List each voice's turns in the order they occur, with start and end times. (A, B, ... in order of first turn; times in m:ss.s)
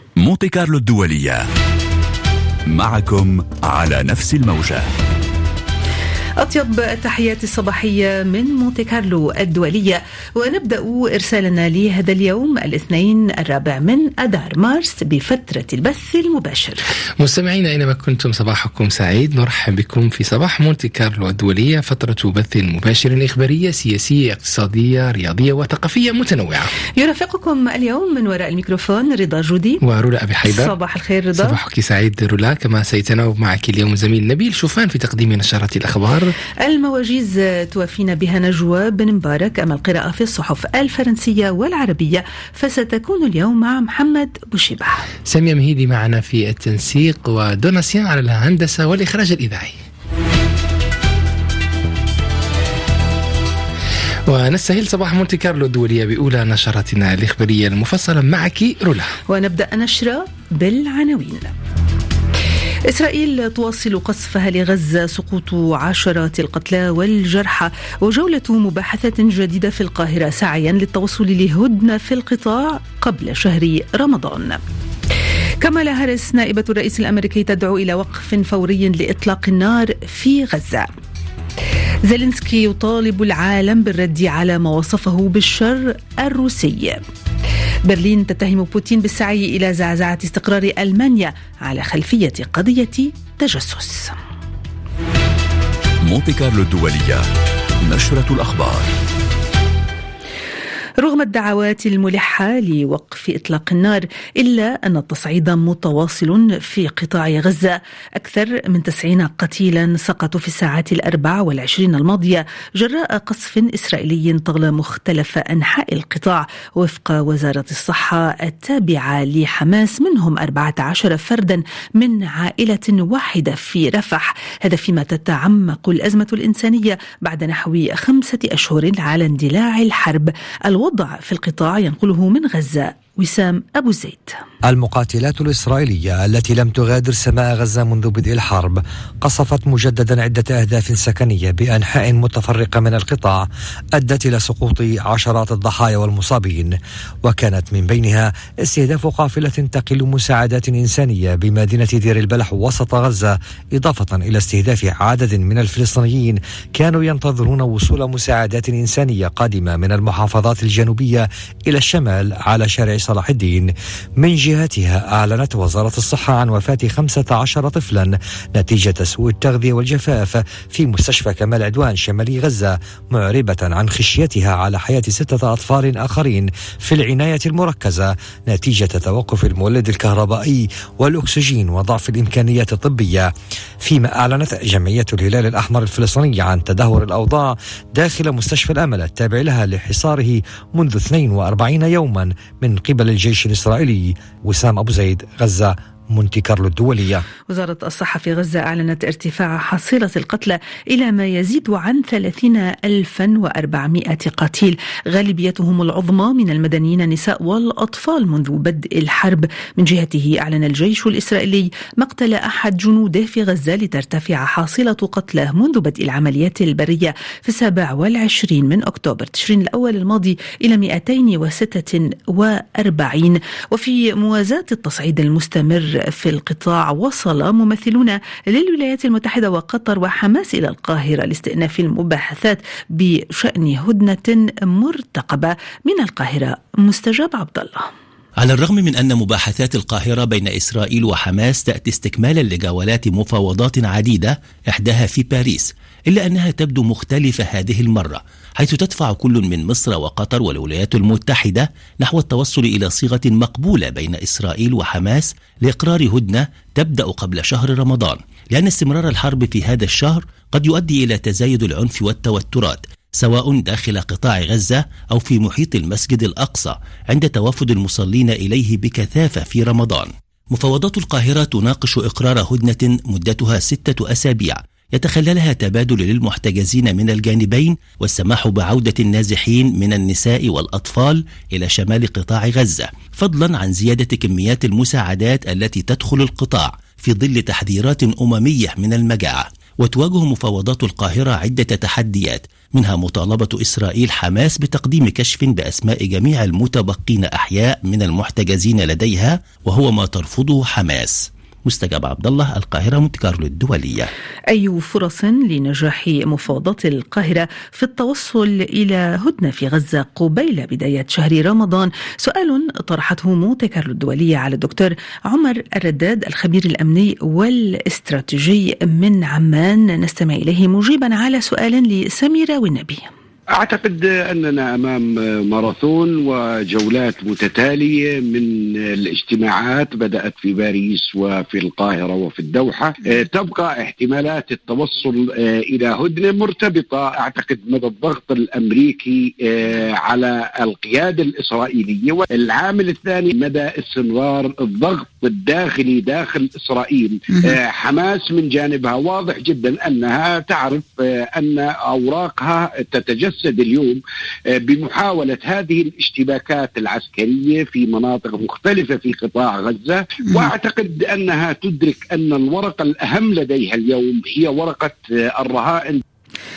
0:00.2-0:01.4 A
0:02.7-0:04.8 A
0:06.4-0:16.8 B
0:17.2-0:26.7 C
0:27.0-0:29.8 B
0:29.8-0:30.8 C
0:30.4-0:31.5 B
0:31.3-0:36.3 C
0:36.6-0:45.0 B
0:45.3-0:49.7 C
0:54.3-0:59.1 C
0:59.3-1:01.5 B
1:02.9-1:14.6 B
1:15.6-1:20.9 B
1:22.1-1:27.0 B
1:27.9-1:34.1 B
1:36.1-1:37.2 A
1:37.8-1:38.9 A
1:41.0-2:14.4 B
2:14.7-2:23.4 D
2:24.0-3:03.3 D
3:03.8-3:17.2 D
3:17.5-3:57.9 B
3:58.4-5:04.1 E
5:04.5-5:23.1 B
5:23.5-5:54.0 F
5:54.5-6:06.0 F